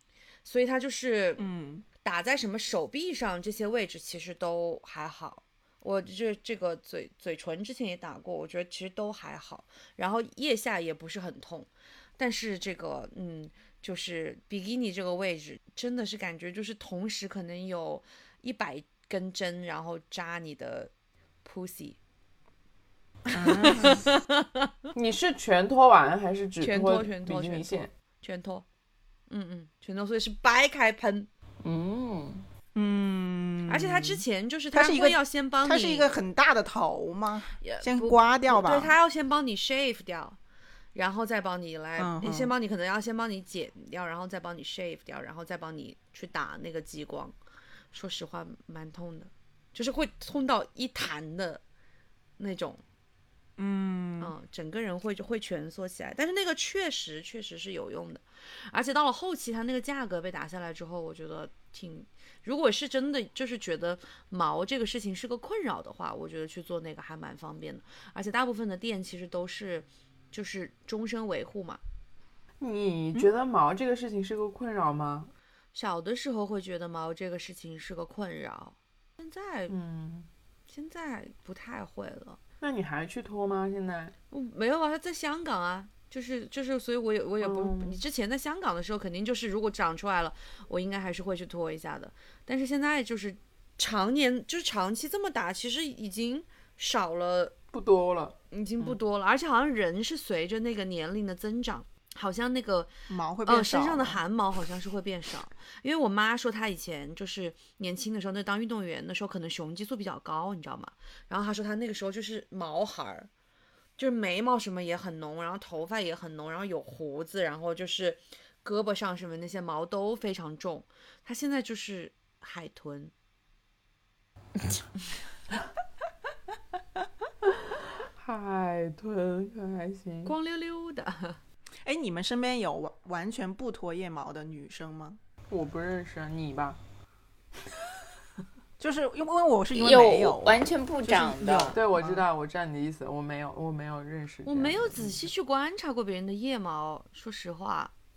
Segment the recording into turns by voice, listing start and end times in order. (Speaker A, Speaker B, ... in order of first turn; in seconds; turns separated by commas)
Speaker A: 0.5-1.4, Speaker B: 1.4-1.9, Speaker A: 2.0-20.9, Speaker A: 21.4-22.0, Speaker C: 23.3-24.0, Speaker A: 23.3-24.7, Speaker D: 24.9-27.9, Speaker A: 26.6-28.6, Speaker A: 29.3-31.3, Speaker C: 31.6-32.5, Speaker B: 32.8-38.9, Speaker A: 33.7-36.1, Speaker A: 37.6-40.4, Speaker A: 40.9-47.4, Speaker B: 42.0-42.5, Speaker A: 47.9-51.6, Speaker A: 52.4-52.8, Speaker B: 53.6-54.3, Speaker A: 54.2-71.8, Speaker D: 72.6-75.3, Speaker A: 75.7-79.8, Speaker D: 79.7-80.3, Speaker A: 80.7-82.4, Speaker D: 82.6-84.1, Speaker A: 84.3-97.5, Speaker D: 87.4-88.0, Speaker D: 97.7-99.0, Speaker A: 98.5-102.9, Speaker B: 103.1-104.2, Speaker A: 103.5-113.3, Speaker A: 114.0-123.1, Speaker D: 128.2-130.3, Speaker A: 130.2-131.4, Speaker B: 131.8-135.2, Speaker D: 135.5-136.8, Speaker B: 138.8-142.2, Speaker C: 139.7-141.8, Speaker D: 141.7-145.3, Speaker A: 144.5-147.9